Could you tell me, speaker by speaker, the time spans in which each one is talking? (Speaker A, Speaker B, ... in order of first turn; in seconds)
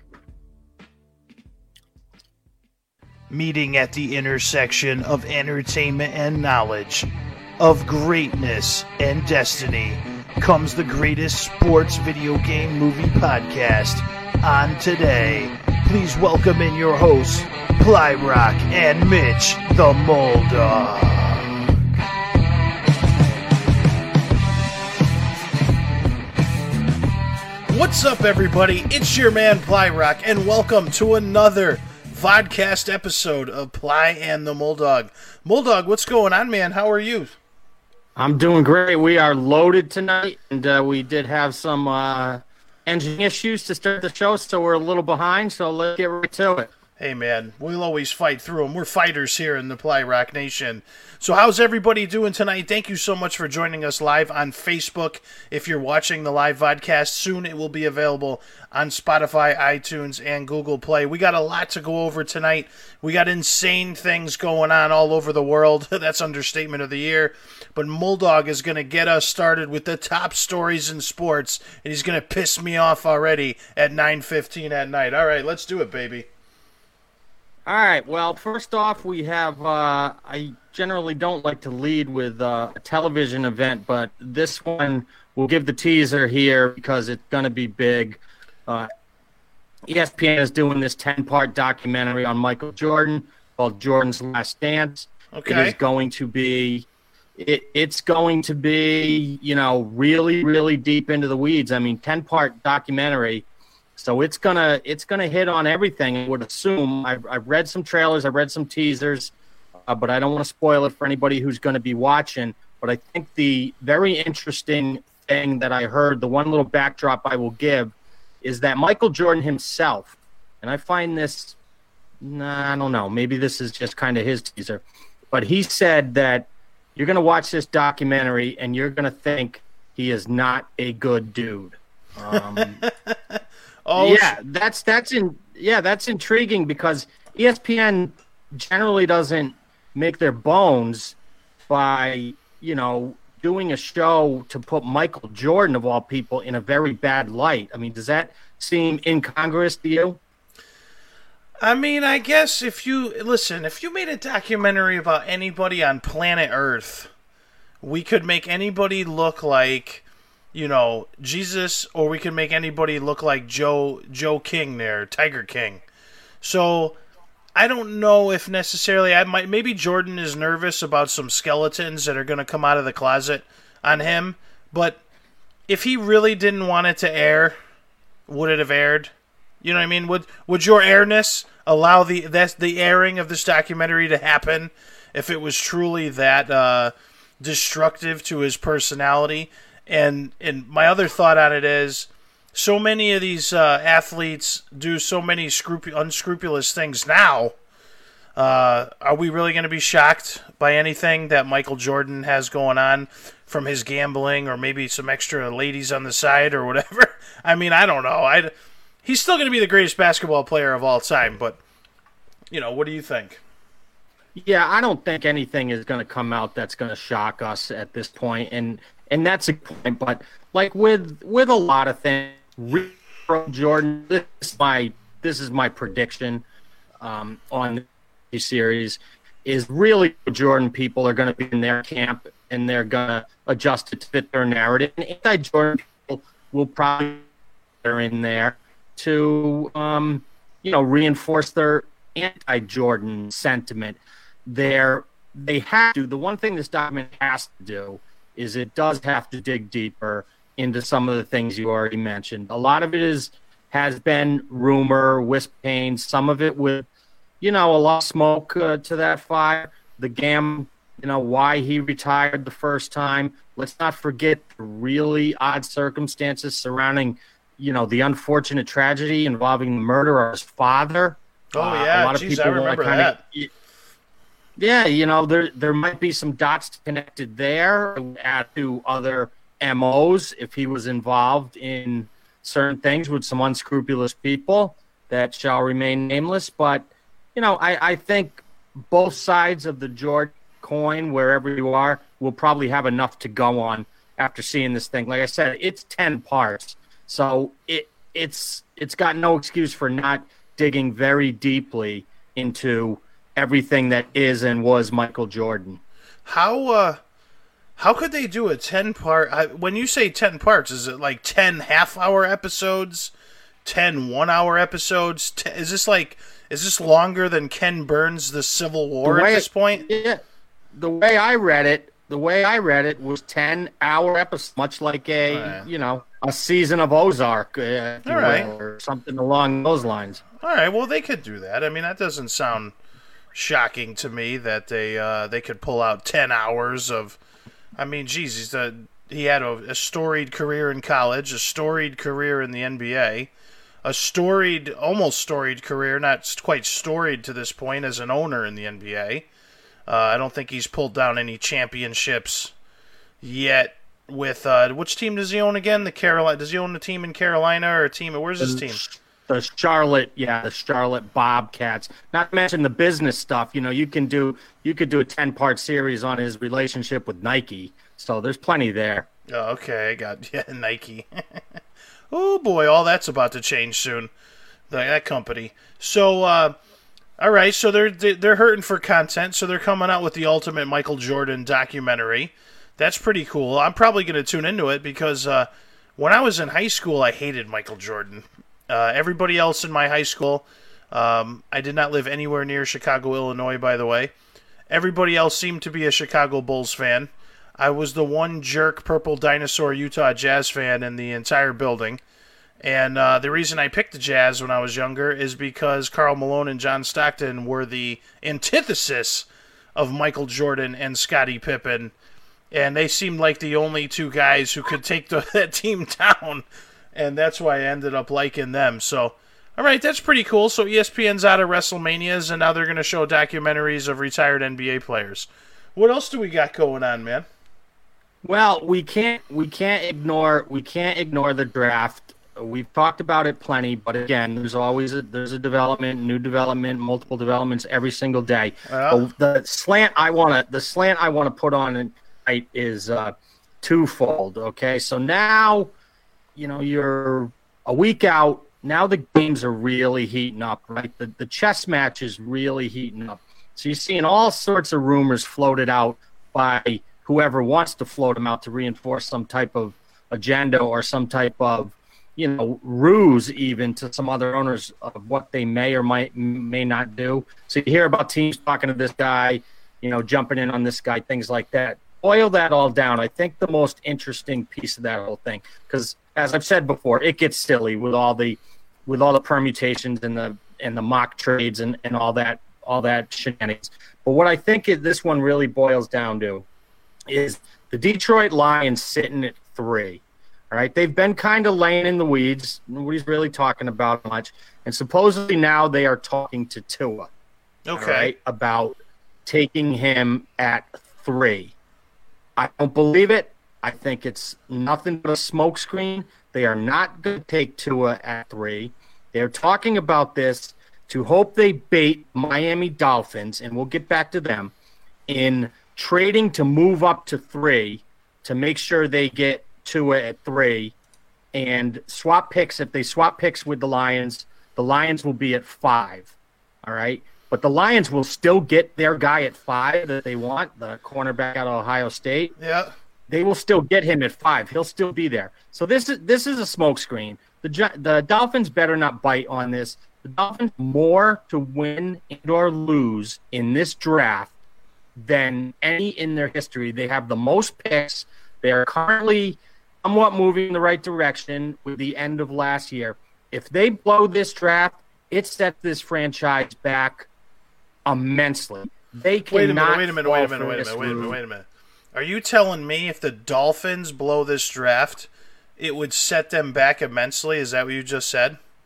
Speaker A: 3.3-7.1, 7.6-21.7, 27.7-37.4, 47.0-76.3, 95.3-95.8, 132.3-134.4, 151.6-157.1, 157.8-165.8, 166.4-167.0, 167.6-175.0, 175.7-177.6, 178.3-197.5, 198.4-208.5, 209.0-211.6, 212.5-213.4, 271.5-273.2, 306.3-307.0, 307.8-313.1, 313.6-319.9, 325.3-325.7, 328.1-328.5, 330.4-332.7, 333.3-337.2, 337.8-343.3, 343.8-349.3, 349.9-352.5, 353.2-358.8, 369.3-371.4, 372.1-374.1, 374.7-376.6, 377.2-394.1, 394.7-402.0, 402.6-411.9, 412.5-427.3, 438.7-439.1, 497.7-498.1, 532.4-532.7, 559.3-568.4
Speaker B: 38.2-46.7, 77.7-88.9, 89.9-109.3, 109.9-121.6, 122.2-132.8, 134.0-141.2, 141.7-150.2, 214.3-226.4, 227.0-237.2, 237.8-256.9, 257.4-273.5, 274.6-305.8, 319.0-320.2, 320.7-330.2, 358.4-369.1, 428.2-445.7, 446.4-486.5, 487.1-497.1, 497.8-501.6, 502.4-514.5, 515.1-520.8, 521.3-526.1, 526.6-532.4, 533.1-544.3, 545.0-557.1, 557.9-561.2